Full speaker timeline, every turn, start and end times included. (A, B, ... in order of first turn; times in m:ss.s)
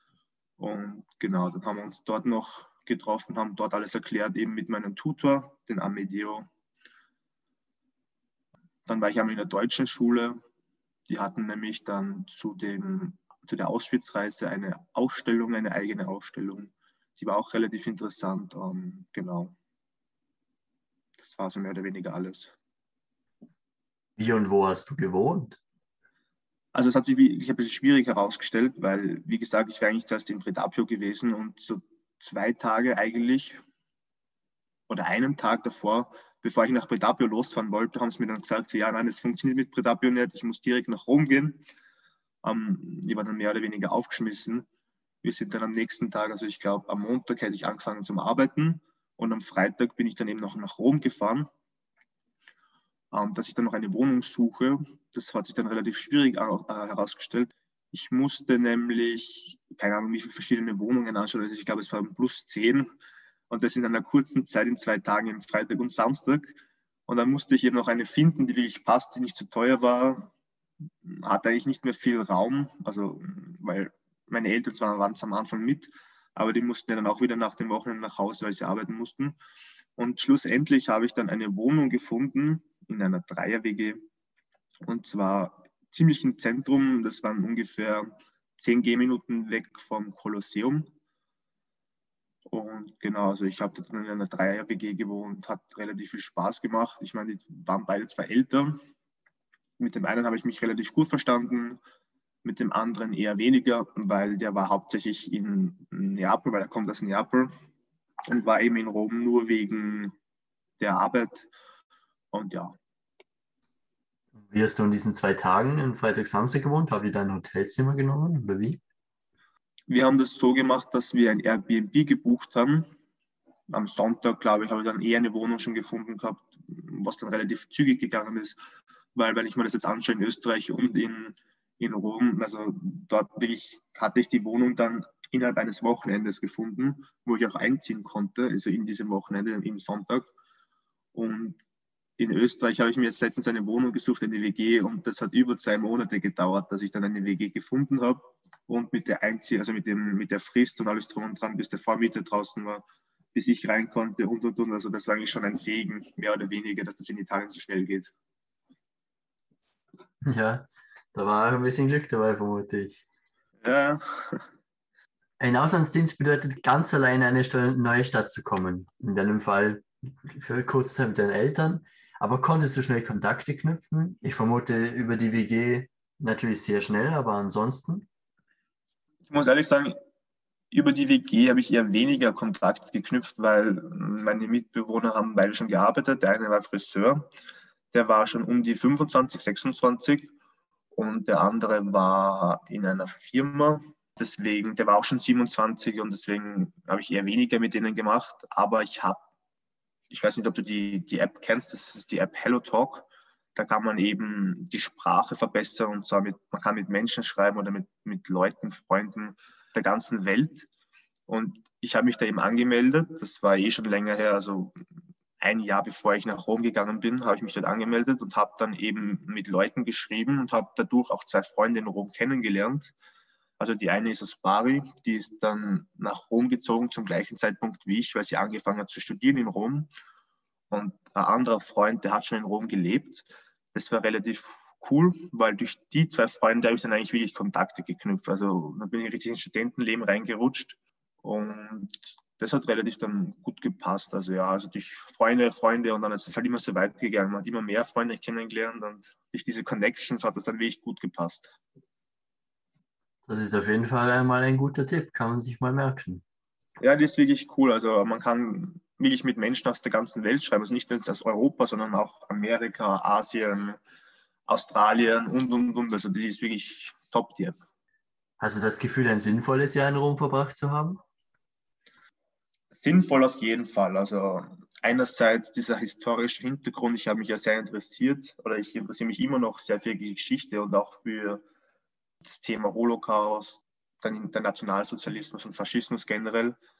0:00.6-0:06.5 A
0:08.8-0:10.4 A
0:11.1-0:19.5 A
0:21.2-0:22.5 A
0:24.2-0:25.6 B
0:26.7-0:33.6 A
0:34.9-0:41.6 A
0:42.4-0:44.6 A
0:45.2-0:51.5 A
0:53.1-1:02.9 A
1:03.5-1:06.6 A
1:07.1-1:10.3 A
1:11.0-1:19.4 A
1:20.0-1:24.0 A
1:24.8-1:30.9 A
1:32.5-1:38.8 A
1:39.8-1:41.8 A
1:42.4-1:47.5 A
1:48.3-1:50.2 A
1:50.8-1:51.5 A
1:52.3-1:52.7 A
1:54.4-1:58.8 B
1:59.9-2:02.9 A
2:03.7-2:08.6 A
2:09.1-2:20.3 A
2:21.1-2:21.6 A
2:22.2-2:32.8 A
2:33.3-2:38.1 A
2:40.2-2:43.0 B
2:43.6-2:44.4 A
2:45.4-2:58.1 B
2:59.3-2:59.9 A
3:00.7-3:07.3 A
3:07.9-3:10.3 A
3:10.9-3:19.2 A
3:20.1-3:30.7 A
3:31.3-3:34.8 A
3:35.4-3:42.9 A
3:43.6-3:49.9 A
3:50.7-4:11.6 A
4:13.3-4:16.2 B
4:16.8-4:23.8 A
4:24.5-4:27.6 A
4:28.4-4:31.0 B
4:32.7-4:41.4 A
4:42.2-4:46.6 A